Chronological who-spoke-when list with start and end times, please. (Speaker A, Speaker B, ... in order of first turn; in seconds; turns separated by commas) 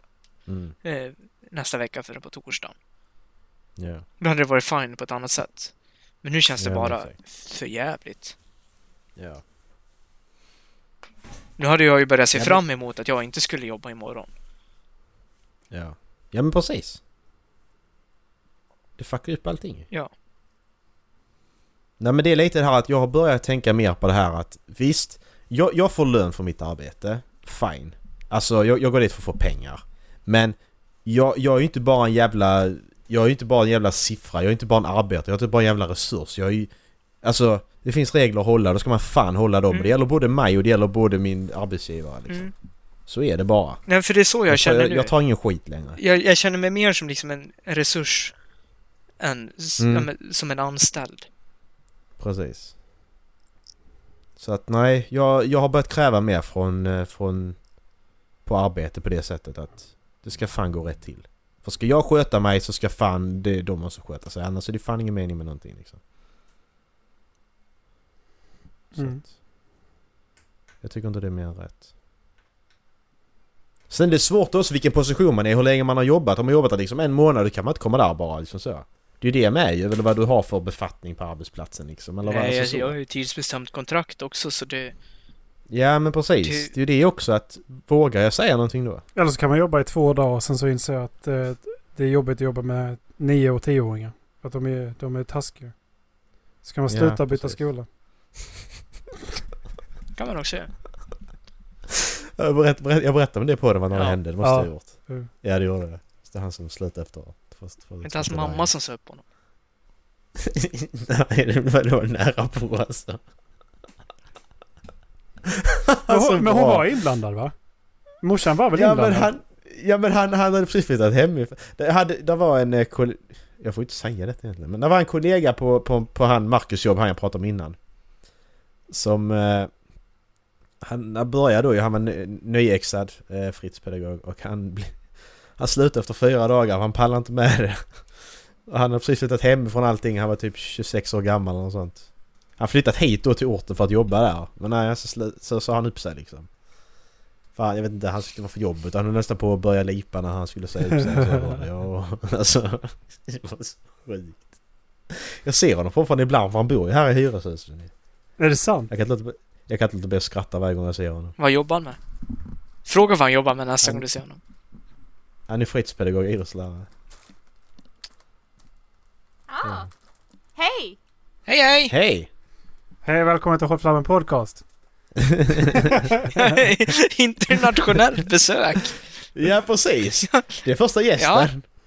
Speaker A: 0.5-0.8, Speaker B: 0.8-2.7, Speaker A: 3.8-4.0, Speaker B: 4.2-5.7, Speaker B: 6.2-8.4, Speaker A: 6.6-7.1, Speaker A: 9.2-9.4, Speaker B: 11.6-14.3, Speaker A: 12.3-12.6, Speaker A: 15.7-17.0, Speaker A: 19.0-19.9, Speaker A: 22.0-36.7, Speaker A: 37.2-42.5, Speaker A: 43.1-43.8, Speaker B: 43.9-45.1, Speaker A: 44.5-46.0, Speaker B: 46.0-48.3, Speaker B: 49.2-51.3, Speaker A: 49.8-50.1, Speaker A: 52.2-52.7, Speaker A: 54.4-57.6, Speaker A: 58.5-66.0, Speaker A: 69.0-69.3, Speaker C: 69.0-69.2, Speaker A: 70.8-71.9, Speaker A: 73.9-83.0, Speaker B: 82.2-84.9, Speaker A: 85.7-89.0, Speaker B: 86.4-86.7, Speaker C: 89.2-95.8, Speaker C: 96.6-97.9, Speaker A: 96.9-97.6, Speaker B: 100.2-100.7, Speaker A: 101.9-108.7, Speaker B: 103.9-104.2, Speaker C: 104.4-105.3, Speaker B: 108.0-109.2, Speaker A: 110.4-113.2, Speaker A: 115.5-116.8, Speaker C: 116.1-117.5, Speaker C: 118.2-119.3, Speaker A: 118.7-127.8, Speaker A: 128.9-129.7, Speaker A: 130.8-135.0, Speaker A: 135.6-137.9, Speaker A: 138.7-142.0, Speaker A: 142.6-146.5, Speaker A: 147.6-154.5, Speaker C: 150.9-151.6, Speaker A: 155.1-157.9, Speaker C: 158.4-158.9, Speaker A: 158.9-161.3, Speaker B: 161.4-162.0, Speaker B: 162.9-164.4, Speaker A: 165.5-166.9, Speaker A: 169.6-169.9, Speaker B: 171.5-171.9, Speaker A: 171.9-172.3, Speaker C: 173.1-174.6, Speaker A: 175.2-176.1, Speaker C: 175.8-176.3, Speaker B: 176.3-179.0, Speaker A: 179.3-181.6, Speaker B: 180.3-180.6, Speaker B: 181.2-181.5